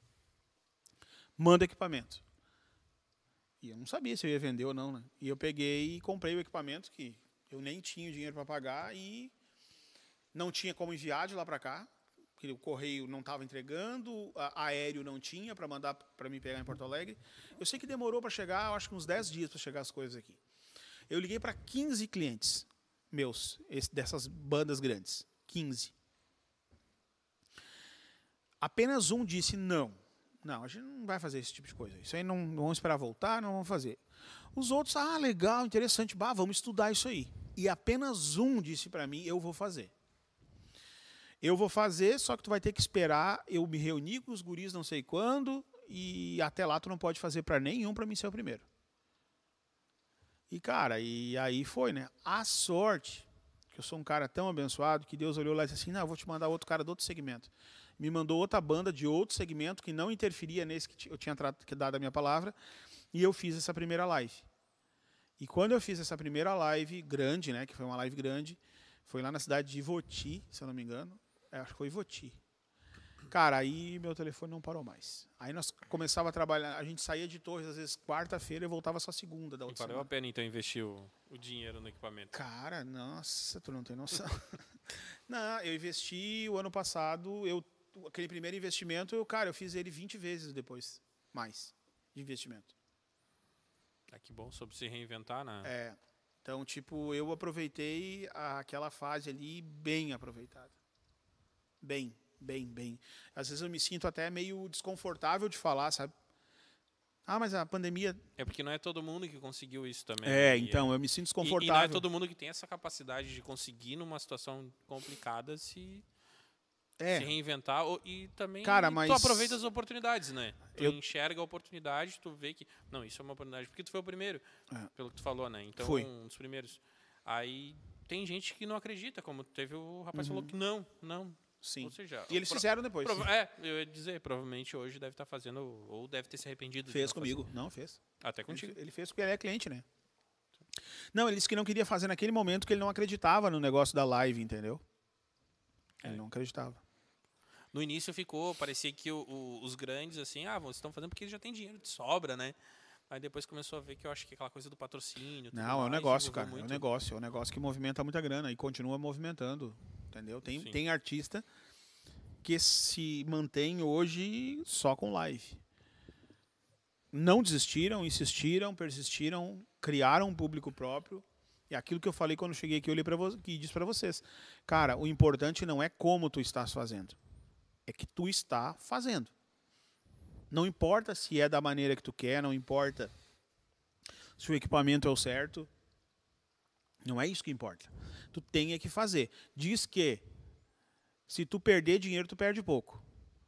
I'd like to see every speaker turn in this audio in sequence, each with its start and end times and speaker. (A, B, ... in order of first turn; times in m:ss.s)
0:01.4-0:02.2 A
0:03.6-0:09.3 A
0:10.3-0:20.4 A
0:21.1-0:25.9 A
0:28.6-0:34.0 A
0:34.5-0:39.9 A
0:41.4-0:48.6 A
0:50.5-1:02.6 A
1:03.1-1:04.4 A
1:05.4-1:12.4 A
1:13.3-1:20.1 A
1:19.7-1:22.4 B
1:22.3-1:24.6 A
1:25.3-1:32.7 A
1:34.1-1:35.7 B
1:35.6-1:40.7 A
1:41.8-1:46.1 A
1:47.3-1:48.2 A
1:48.4-1:56.0 B
1:50.2-1:52.0 A
1:57.0-1:57.3 A
1:57.1-2:04.4 B
1:58.6-1:59.6 A
2:05.0-2:17.4 B
2:05.8-2:06.1 A
2:10.1-2:10.5 A
2:11.6-2:13.3 A
2:16.9-2:19.8 A
2:18.2-2:18.8 B
2:21.1-2:24.8 A
2:26.0-2:26.8 A
2:27.7-2:32.6 B
2:33.1-2:36.8 B
2:35.5-2:41.4 A
2:40.5-2:40.8 B
2:42.4-2:45.6 A
2:47.1-2:57.2 A
2:57.9-2:59.3 A
3:00.5-3:03.1 A
3:04.4-3:05.7 A
3:07.0-3:10.2 A
3:11.3-3:13.0 A